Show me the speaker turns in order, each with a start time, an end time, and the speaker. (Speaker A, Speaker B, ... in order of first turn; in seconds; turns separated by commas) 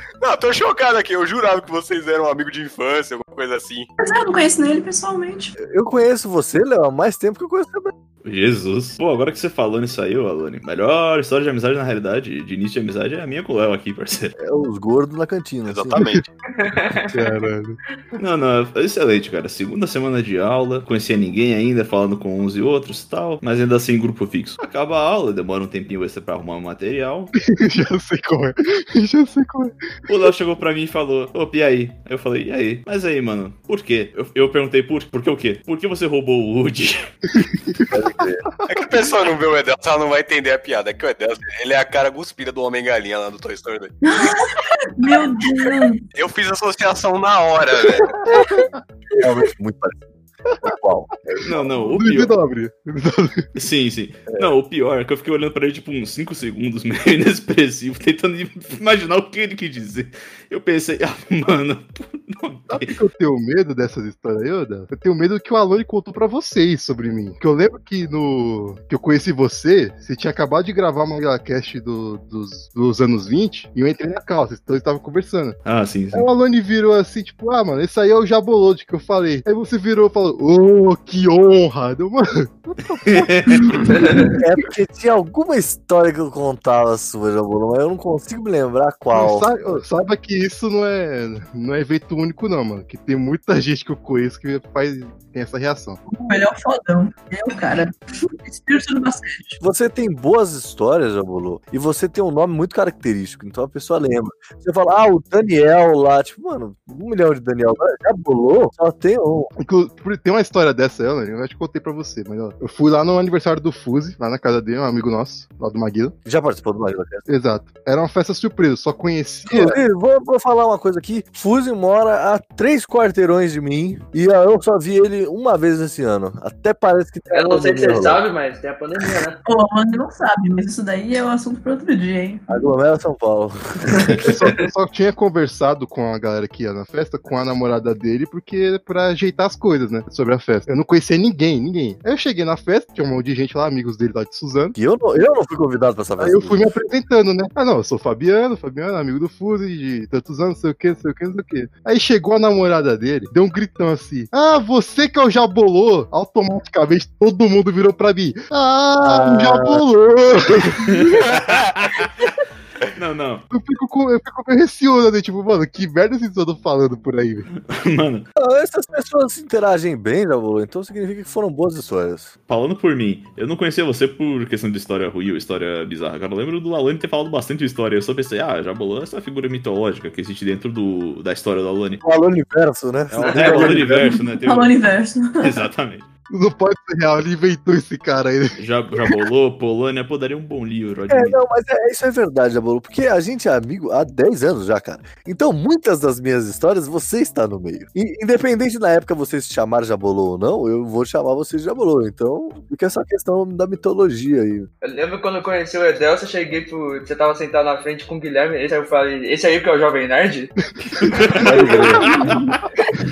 Speaker A: 0.2-3.9, Speaker B: 4.0-5.5, Speaker C: 5.6-7.9, Speaker D: 8.2-14.3, Speaker C: 14.4-16.1, Speaker A: 15.7-16.2, Speaker E: 15.9-16.2, Speaker F: 16.6-17.3, Speaker E: 16.9-17.8, Speaker D: 18.2-27.3, Speaker E: 27.5-29.7, Speaker D: 30.1-37.1, Speaker E: 37.3-37.9, Speaker C: 37.9-38.4, Speaker A: 38.7-43.9, Speaker B: 44.0-46.0, Speaker A: 46.1-48.1, Speaker C: 49.2-50.0, Speaker C: 50.6-51.4, Speaker D: 51.4-52.3, Speaker E: 51.5-53.5, Speaker D: 53.5-62.9, Speaker E: 62.7-75.6, Speaker D: 75.7-76.3, Speaker E: 76.1-84.3, Speaker D: 83.1-83.8, Speaker F: 84.0-84.3, Speaker C: 84.3-89.5, Speaker E: 89.1-96.0, Speaker B: 96.1-99.6, Speaker C: 99.6-109.5, Speaker E: 109.6-116.1, Speaker C: 116.2-117.2, Speaker E: 117.3-119.8, Speaker C: 119.5-128.2, Speaker F: 127.3-129.4, Speaker B: 129.4-132.4, Speaker C: 132.5-134.2, Speaker E: 134.2-144.8, Speaker C: 144.8-146.6, Speaker E: 146.2-161.0, Speaker C: 159.0-159.8, Speaker D: 160.8-162.1, Speaker D: 162.9-163.4, Speaker E: 163.5-167.4, Speaker D: 167.6-168.3, Speaker C: 168.4-172.3, Speaker D: 172.5-182.0, Speaker C: 182.0-184.1, Speaker D: 183.1-184.8, Speaker F: 183.2-183.8, Speaker B: 183.8-185.6, Speaker D: 185.4-186.1, Speaker E: 186.3-188.6, Speaker D: 188.6-191.4, Speaker C: 191.1-204.7, Speaker F: 204.8-210.5, Speaker D: 211.0-212.5, Speaker E: 211.4-211.7, Speaker C: 211.4-212.3, Speaker B: 211.9-212.5